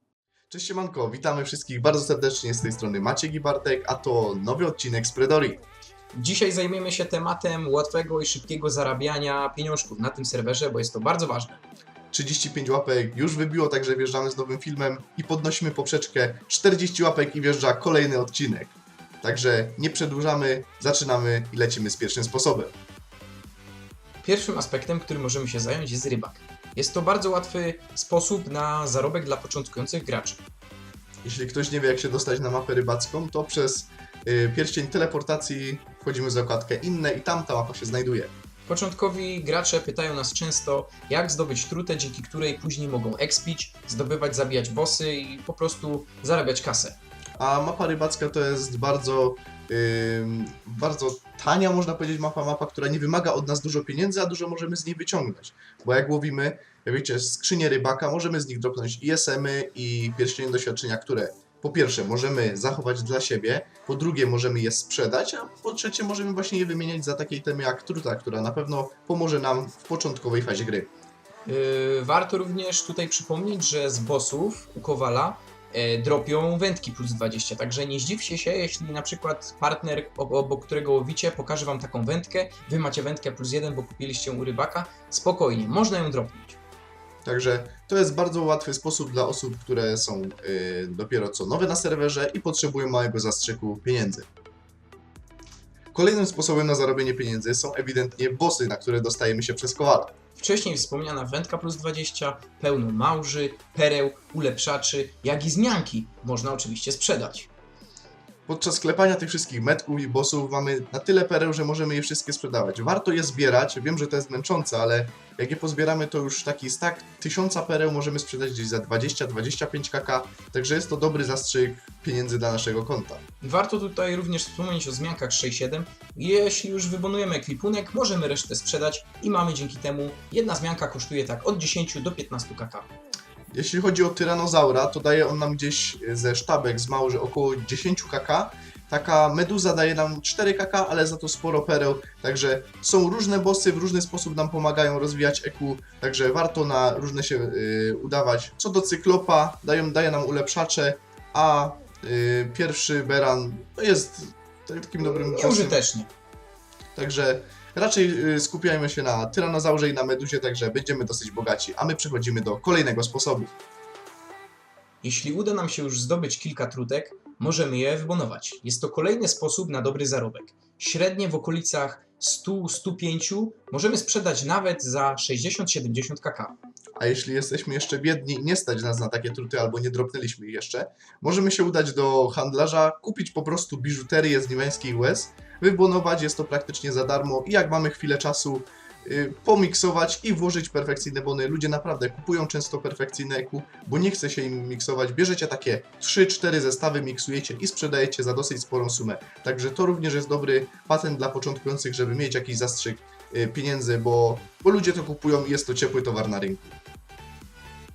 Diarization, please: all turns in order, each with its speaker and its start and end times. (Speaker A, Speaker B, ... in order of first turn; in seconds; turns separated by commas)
Speaker A: 0.5-5.6, Speaker B: 6.1-11.6, Speaker A: 12.1-22.7, Speaker B: 24.2-30.4, Speaker A: 31.2-38.3, Speaker B: 38.7-47.0, Speaker A: 47.4-70.9, Speaker B: 71.5-86.6, Speaker A: 87.2-94.3, Speaker A: 95.9-100.1, Speaker B: 100.4-107.5, Speaker A: 108.5-123.2, Speaker B: 123.4-132.9, Speaker A: 133.5-155.8, Speaker B: 155.0-156.1, Speaker A: 156.9-163.5, Speaker B: 165.0-176.6, Speaker A: 177.0-206.8